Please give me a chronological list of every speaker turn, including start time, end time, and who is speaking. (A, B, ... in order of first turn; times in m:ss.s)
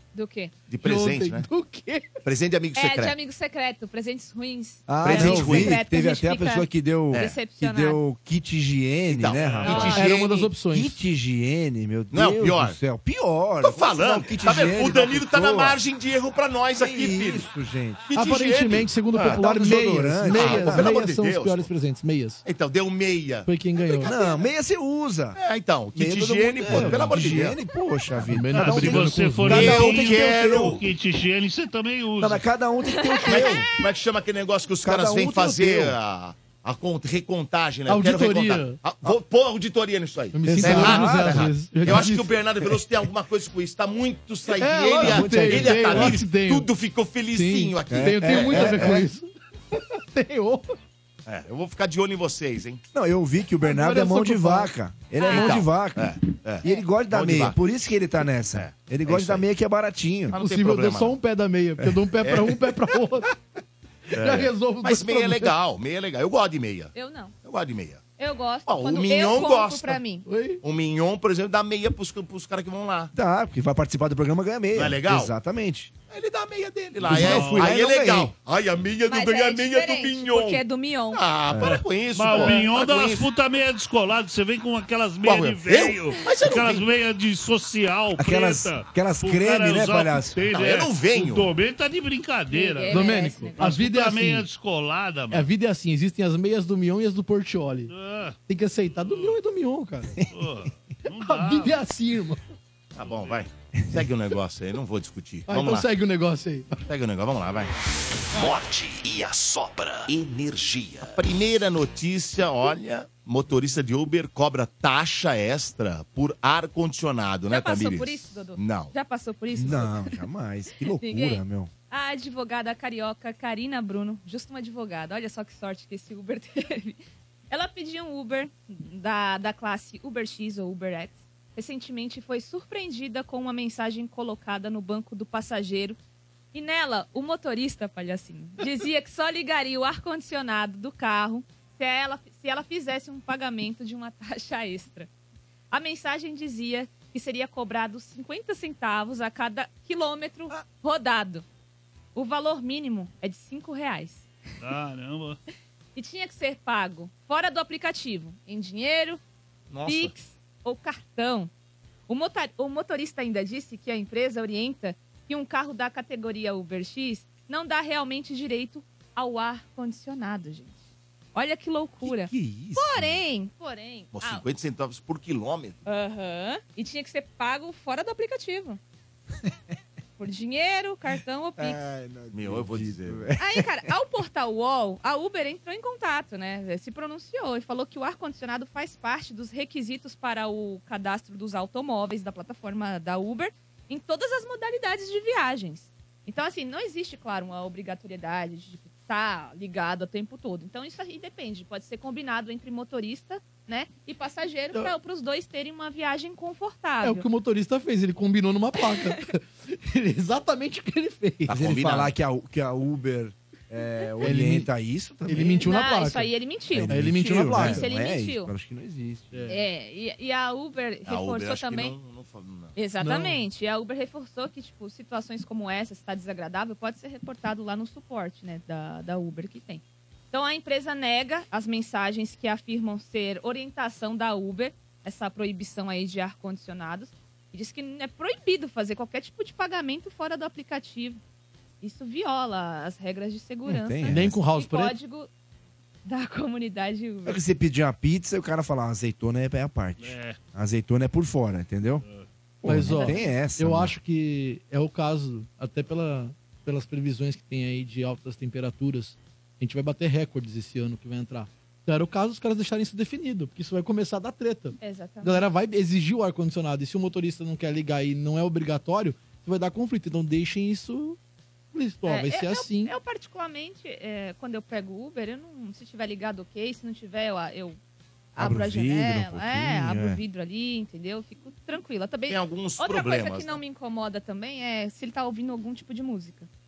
0:00.1-0:00.5 A
0:00.7-0:01.5 B
0:00.8-0:02.1 C
0:02.2-0:03.2 B
0:02.7-0:08.0 A
0:04.9-0:10.1 D
0:05.0-0:05.8 B
0:09.1-0:10.5 B
0:09.4-0:10.0 E
0:09.7-0:09.9 A
0:09.8-0:11.0 C
0:10.7-0:15.8 D
0:12.1-0:12.8 B
0:13.6-0:17.5 B
0:16.7-0:18.1 D
0:18.1-0:19.4 B
0:18.1-0:22.4 C
0:19.2-0:20.9 D
0:20.2-0:21.7 B
0:22.4-0:24.5 B
0:23.4-0:24.1 C
0:24.0-0:25.4 D
0:25.4-0:27.6 B
0:25.9-0:30.8 D
0:26.7-0:27.1 C
0:28.3-0:29.7 C
0:28.5-0:32.4 E
0:29.5-0:30.8 B
0:32.2-0:33.7 D
0:32.9-0:33.6 A
0:33.3-0:49.0 B
0:34.8-0:35.9 D
0:37.9-0:38.8 C
0:40.3-0:42.4 C
0:40.5-0:41.5 D
0:44.5-0:46.7 C
0:45.0-0:46.2 D
0:47.3-0:50.6 C
0:47.9-0:49.1 D
0:51.2-0:52.8 B
0:52.9-1:00.4 D
0:53.6-0:54.7 C
0:55.2-0:55.5 A
0:55.3-0:57.6 B
0:55.3-0:55.6 C
0:58.5-0:59.4 B
1:00.3-1:01.2 B
1:00.3-1:03.3 C
1:02.2-1:02.9 B
1:04.1-1:05.5 C
1:04.1-1:08.0 B
1:06.9-1:07.3 A
1:08.2-1:10.2 A
1:08.7-1:10.0 B
1:10.2-1:10.6 C
1:10.6-1:13.1 B
1:13.1-1:15.9 D
1:14.7-1:15.3 B
1:16.1-1:23.2 B
1:17.0-1:18.3 D
1:17.1-1:17.7 E
1:19.1-1:21.2 A
1:21.5-1:21.8 D
1:21.6-1:35.5 E
1:22.3-1:22.6 A
1:25.2-1:26.8 B
1:28.2-1:30.4 D
1:30.5-1:31.5 B
1:32.5-1:33.7 A
1:32.9-1:34.4 C
1:35.3-1:37.9 C
1:37.9-1:38.4 E
1:38.5-1:40.1 C
1:39.0-1:39.4 E
1:40.3-1:41.8 E
1:41.2-1:42.4 C
1:42.9-1:45.9 B
1:43.0-1:43.4 E
1:43.8-1:44.0 D
1:45.5-1:46.8 C
1:46.8-1:47.7 B
1:48.3-1:51.1 F
1:51.0-1:58.9 B
1:57.5-2:00.2 A
1:59.5-2:01.7 D
2:01.0-2:16.0 A
2:16.5-2:25.1 A
2:25.7-2:31.4 A
2:32.1-2:34.3 A
2:34.6-2:35.4 E
2:35.9-2:39.2 A
2:39.7-2:40.1 B
2:39.8-2:41.5 A
2:42.1-2:50.8 A
2:51.3-2:54.4 A
2:52.0-2:53.2 D
2:54.1-2:55.8 B
2:55.8-2:58.8 A
3:00.2-3:01.8 A
3:01.6-3:03.9 D
3:02.3-3:03.3 B
3:03.4-3:27.2 A
3:27.0-3:31.6 C
3:31.5-3:32.1 B
3:31.5-3:35.7 D
3:34.2-3:34.7 C
3:35.3-3:36.3 C
3:35.6-3:38.5 A
3:36.7-3:39.3 D
3:36.8-3:37.8 C
3:39.3-3:39.6 C
3:39.5-3:41.9 A
3:41.0-3:42.8 B
3:42.8-4:01.2 A
3:43.0-3:43.4 C
4:01.8-4:05.3 A
4:03.7-4:04.4 D
4:04.1-4:04.9 C
4:06.0-4:07.4 A
4:07.2-4:12.0 D
4:10.0-4:10.4 E
4:12.6-4:13.9 D
4:12.6-4:31.2 C
4:12.8-4:13.3 A
4:24.8-4:25.4 A
4:31.7-4:32.9 C
4:32.0-4:37.8 A
4:38.3-4:46.5 A
4:38.4-4:40.2 D
4:42.3-4:43.6 B